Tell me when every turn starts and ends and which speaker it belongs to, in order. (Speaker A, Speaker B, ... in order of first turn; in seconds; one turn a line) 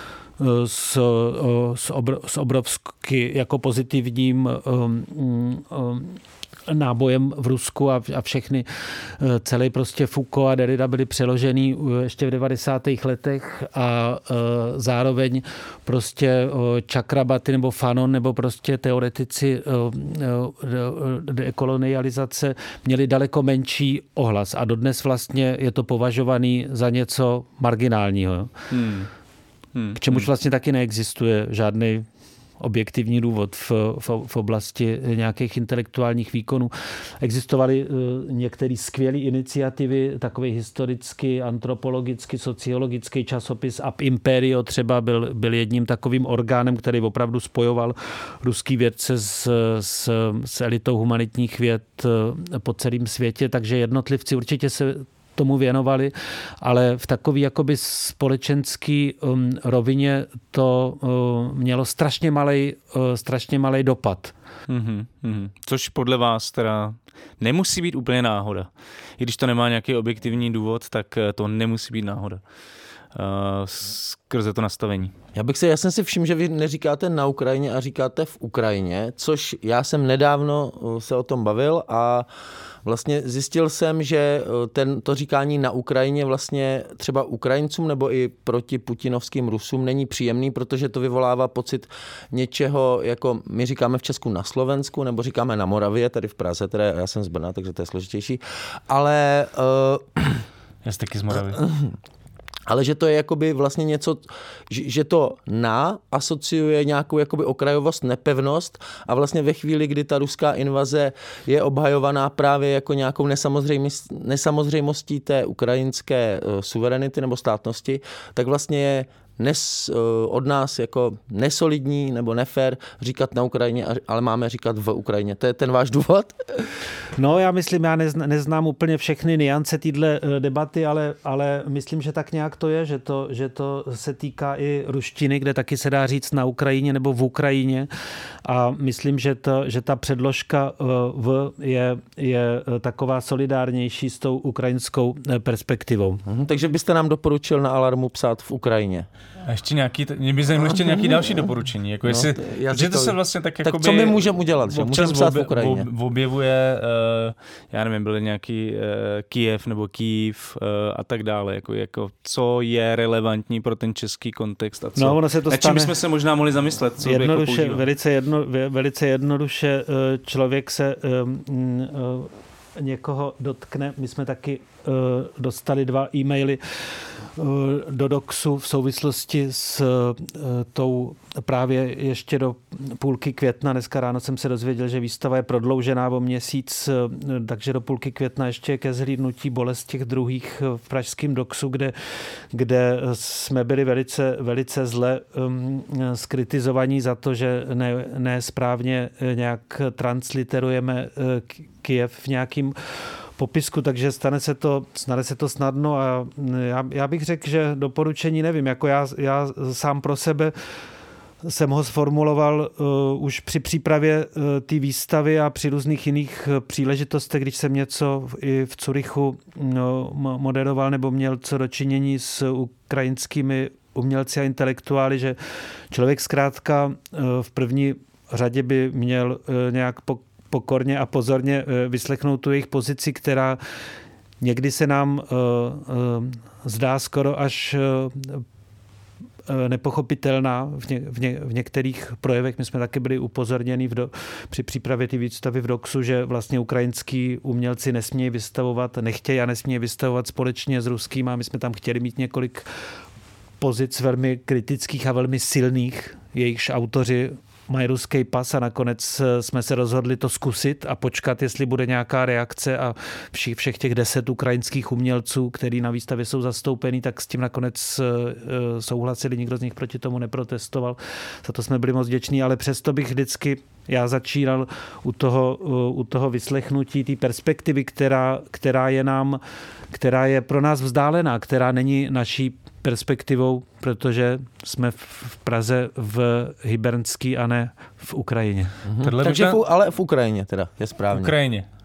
Speaker A: 0.4-28.5
Speaker B: 28.7-29.1
Speaker B: 29.7-30.2
Speaker A: 30.0-32.1
Speaker A: 32.6-64.3
Speaker B: 64.7-72.4
Speaker B: 73.1-75.1
Speaker C: 75.3-82.3
Speaker C: 82.8-100.4
Speaker B: 100.8-101.6
Speaker C: 101.3-101.9
Speaker C: 102.7-126.4
Speaker A: 127.2-137.9
Speaker A: 138.4-146.2
Speaker C: 146.2-149.1
Speaker B: 149.4-167.8
Speaker C: 150.6-151.4
Speaker C: 152.0-155.9
Speaker A: 165.0-165.9
Speaker A: 167.0-191.9
Speaker A: 192.5-202.8
Speaker A: 203.4-210.5
Speaker A: 211.4-225.4
Speaker A: 225.9-233.6
Speaker A: 234.4-238.4
Speaker A: 239.5-252.7
Speaker A: 253.6-279.4
Speaker A: 279.9-288.8
Speaker C: 288.9-291.4
Speaker B: 289.0-289.6
Speaker B: 291.1-291.6